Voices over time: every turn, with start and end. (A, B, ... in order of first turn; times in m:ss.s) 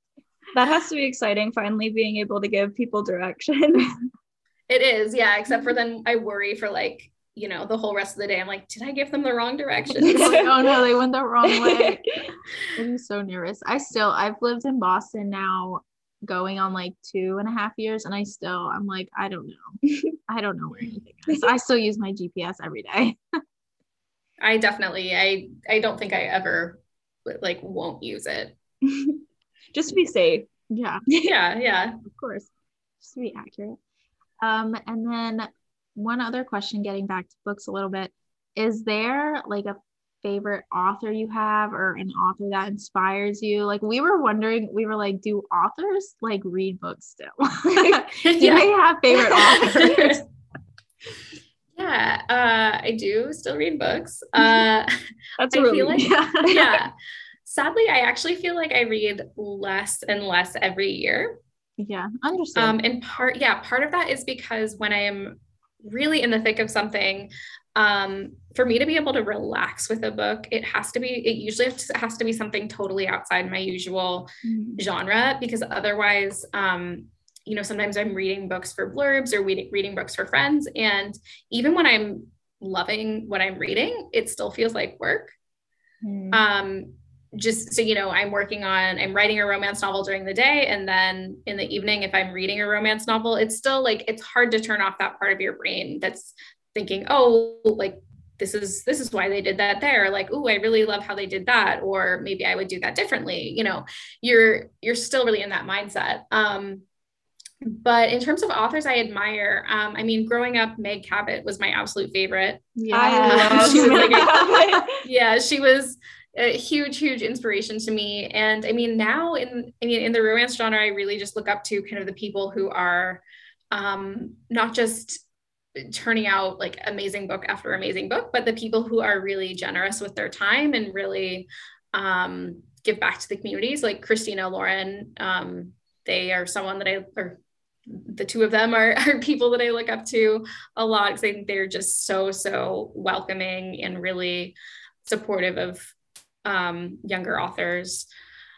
0:00.5-0:03.9 A
0:04.7-0:10.4 B
0:10.0-0:12.0 C
0:10.0-0:10.7 A
0:11.4-0:12.3 A
0:12.7-0:23.2 C
0:19.8-0:20.1 A
0:24.4-0:28.5 B
0:28.8-0:29.2 A
0:29.7-0:30.5 A
0:30.7-0:31.0 C
0:31.1-0:31.3 A
0:31.2-0:32.0 B
0:32.0-0:32.5 C
0:33.0-0:33.8 C
0:34.4-0:50.2 C
0:47.7-0:48.0 A
0:48.2-0:50.2 B
0:51.8-0:54.9 B
0:55.4-0:56.8 A
0:55.5-0:56.9 B
0:56.0-0:56.5 C
0:57.4-1:01.4 B
1:01.8-1:02.8 C
1:02.6-1:25.3 B
1:14.4-1:14.8 A
1:26.0-1:26.4 C
1:26.3-1:46.8 B
1:47.6-2:05.2 B
1:52.8-1:54.5 C
1:52.9-1:55.0 A
2:05.8-2:25.9 B
2:26.4-2:28.1 B